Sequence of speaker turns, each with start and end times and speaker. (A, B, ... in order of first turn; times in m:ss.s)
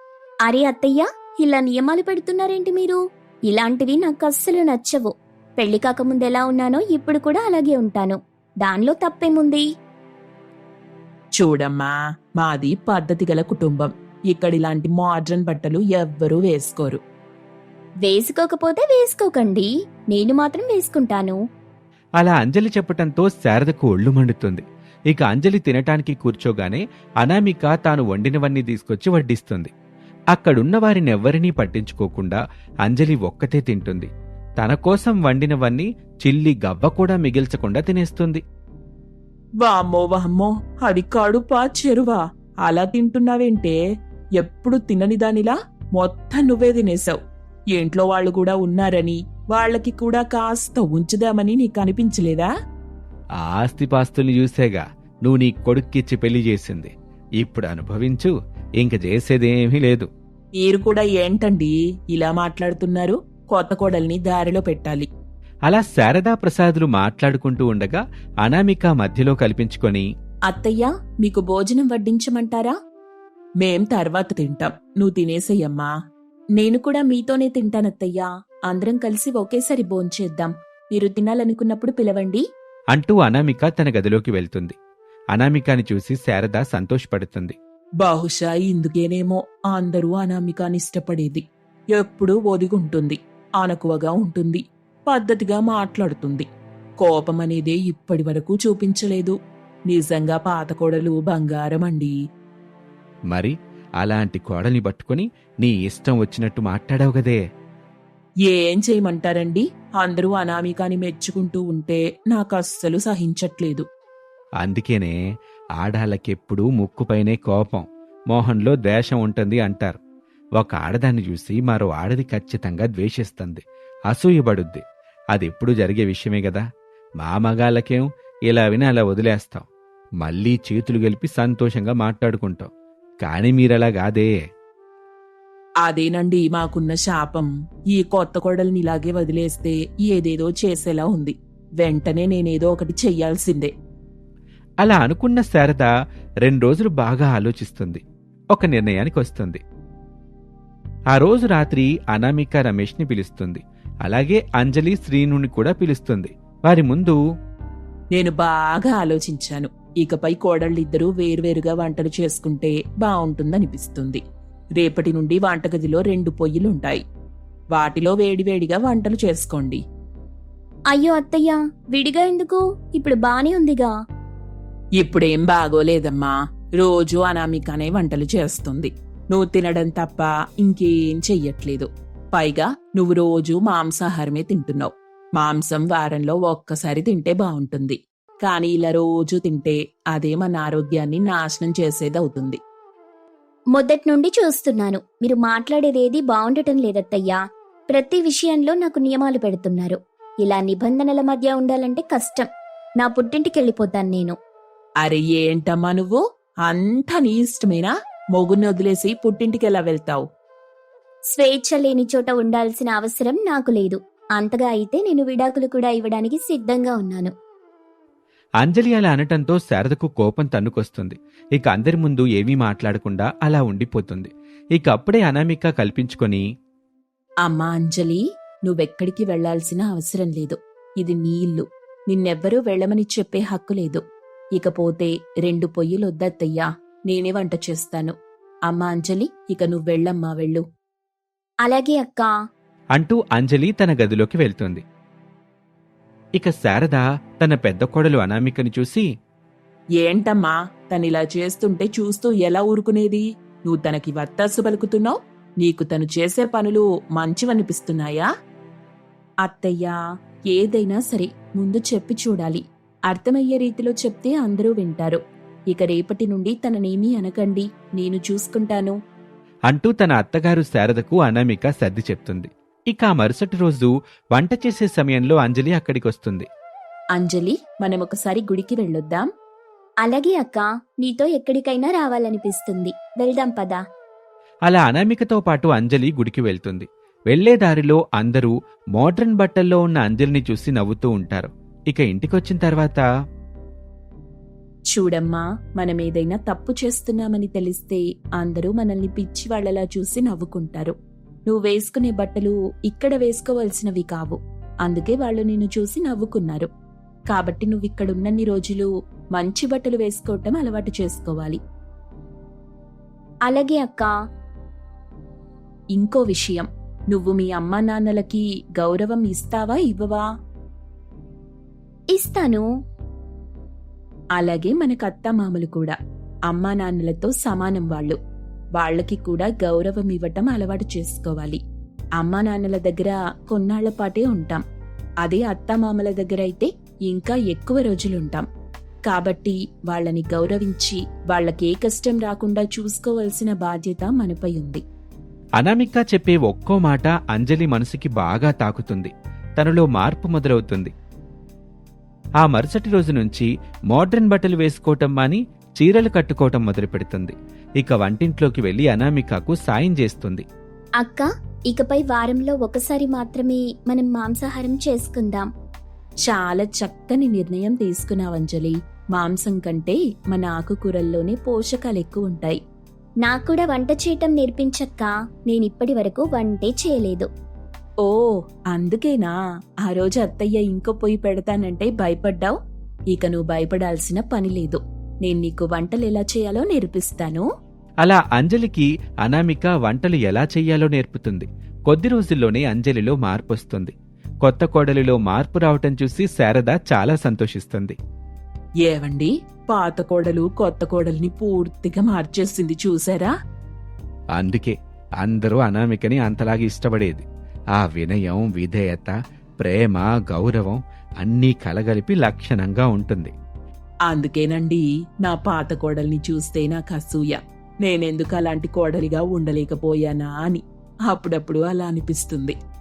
0:00.5-0:09.7 A
0:11.4-0:17.0 B
0:18.0-0:21.4 A
0:22.2-0:29.7 C
0:30.3-0:38.4 C
0:39.6-0:43.8 B
0:44.4-0:47.2 B
0:47.8-0:52.5 B
0:53.4-1:00.1 C
1:00.6-1:05.1 B
1:05.7-1:10.1 C
1:10.5-1:12.8 B
1:13.6-1:15.9 B
1:16.6-1:22.4 B
1:22.9-1:24.8 C
1:25.3-1:27.6 C
1:28.0-1:31.4 B
1:32.0-1:36.5 B
1:37.0-1:39.4 B
1:39.9-1:42.1 B
1:43.3-1:47.4 C
1:48.5-1:53.9 B
1:54.6-1:55.2 C
1:55.8-2:00.0 C
2:00.6-2:04.8 C
2:05.3-2:06.6 C
2:07.2-2:09.7 C
2:10.2-2:12.7 C
2:13.2-2:14.3 C
2:15.8-2:23.7 B
2:24.8-2:25.9 C
2:26.4-2:29.6 C
2:31.1-2:37.2 C
2:38.2-2:44.2 B
2:44.8-2:47.0 B
2:47.8-2:49.8 B
2:50.9-2:53.9 A
2:55.0-3:12.6 B
3:13.8-3:17.4 A
3:17.9-3:22.5 A
3:23.0-3:24.4 A
3:25.0-3:30.2 B
3:31.3-3:37.3 A
3:38.6-3:46.4 C
3:47.4-3:54.0 B
3:54.6-3:58.1 B
3:58.7-4:00.6 B
4:01.7-4:02.3 A
4:03.0-4:04.8 C
4:06.4-4:09.1 C
4:10.0-4:18.3 B
4:19.4-4:20.0 B
4:20.5-4:25.2 B
4:25.7-4:29.0 B
4:29.7-4:36.5 C
4:37.2-4:39.3 B
4:40.0-4:43.8 A
4:44.7-4:53.0 C
4:55.0-5:00.9 B
5:01.5-5:06.7 B
5:07.3-5:11.6 B
5:13.5-5:14.2 A
5:16.0-5:20.2 B
5:22.1-5:22.7 A
5:24.4-5:26.0 B
5:26.5-5:28.2 B
5:28.8-5:31.6 B
5:32.2-5:34.6 B
5:35.2-5:38.5 B
5:39.1-5:44.8 B
5:45.6-5:50.9 C
5:52.4-6:00.4 C
6:01.0-6:05.5 A
6:06.3-6:12.6 B
6:13.2-6:17.3 A
6:18.0-6:22.6 B
6:23.1-6:27.4 B
6:28.0-6:38.0 C
6:38.8-6:43.3 B
6:44.4-6:47.3 C
6:47.8-6:53.3 C
6:54.1-7:02.6 B